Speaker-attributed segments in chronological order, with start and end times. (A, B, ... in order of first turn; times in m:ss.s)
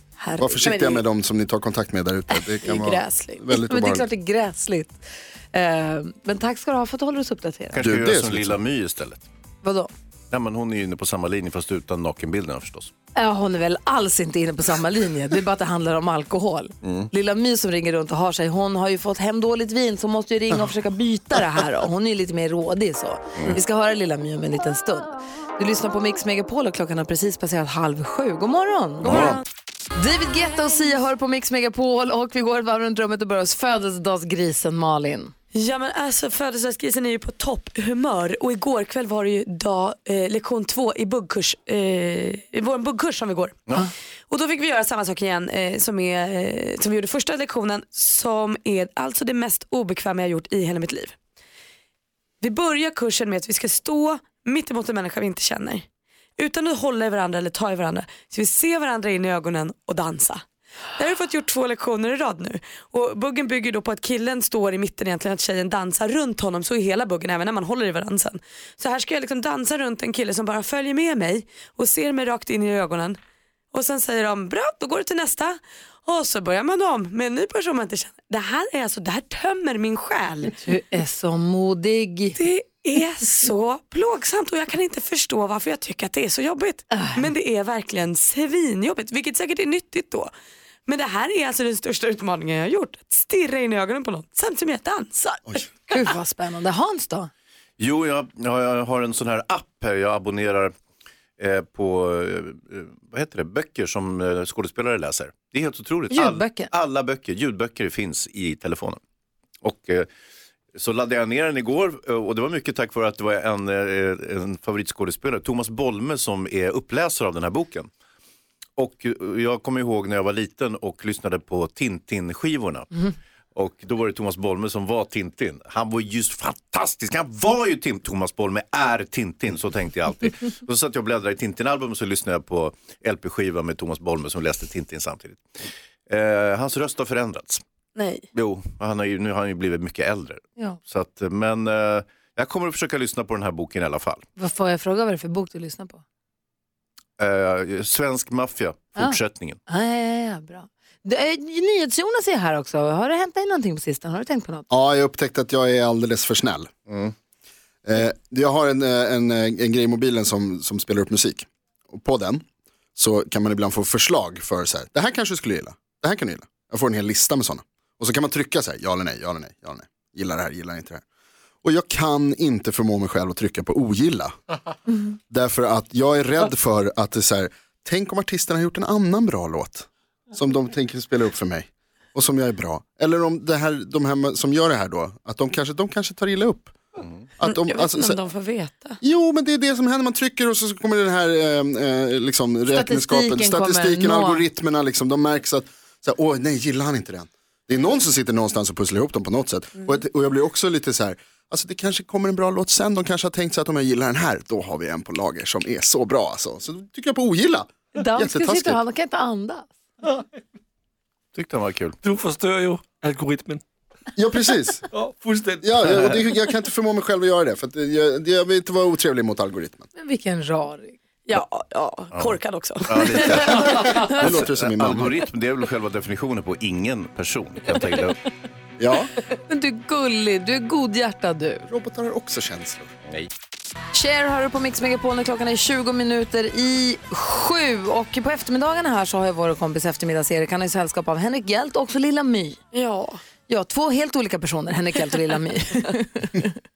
0:00.2-0:01.0 A
0:00.4-0:04.1 B
0:02.3-0:03.4 A
0:03.5-0:05.0 C
0:05.5-0:07.8 C
0:07.7-0:09.2 D
0:07.8-0:08.6 B
0:09.6-0:09.9 C
0:10.3-0:12.9 D
0:13.2-0:29.3 C
0:16.8-0:17.1 D
0:29.1-0:29.4 D
0:29.9-0:35.3 C
0:35.5-0:43.6 A
0:44.3-0:51.1 A
0:52.4-0:55.8 A
0:56.4-1:00.4 A
1:01.0-1:13.2 A
1:13.7-1:20.5 A
1:20.6-1:22.4 C
1:22.4-1:30.3 A
1:26.9-1:27.2 C
1:30.9-1:35.4 A
1:35.9-1:37.3 C
1:37.8-1:40.7 D
1:41.4-1:49.0 D
1:46.1-1:46.7 C
1:49.6-1:50.1 D
1:50.7-1:57.9 D
1:58.8-2:02.9 D
2:03.5-2:15.4 D
2:16.1-2:17.6 D
2:18.0-2:18.2 A
2:18.3-2:24.2 D
2:24.4-2:26.0 C
2:27.2-2:29.6 D
2:29.0-2:34.7 C
2:34.7-2:36.7 B
2:37.8-2:51.0 B
2:51.6-2:54.3 B
2:55.3-3:06.8 B
3:07.4-3:08.2 B
3:07.4-3:09.0 A
3:09.0-3:28.8 B
3:12.7-3:14.4 C
3:28.0-3:29.7 C
3:31.3-3:32.0 D
3:32.0-3:33.6 E
3:34.2-3:34.8 B
3:34.9-3:36.2 E
3:35.6-3:39.9 B
3:40.0-3:41.0 C
3:41.3-3:44.0 A
3:42.1-3:48.2 D
3:44.2-3:45.1 B
3:48.8-3:49.1 B
3:49.5-3:51.7 C
3:51.7-3:52.9 B
3:53.9-4:02.6 C
4:02.7-4:03.2 A
4:03.5-4:06.5 C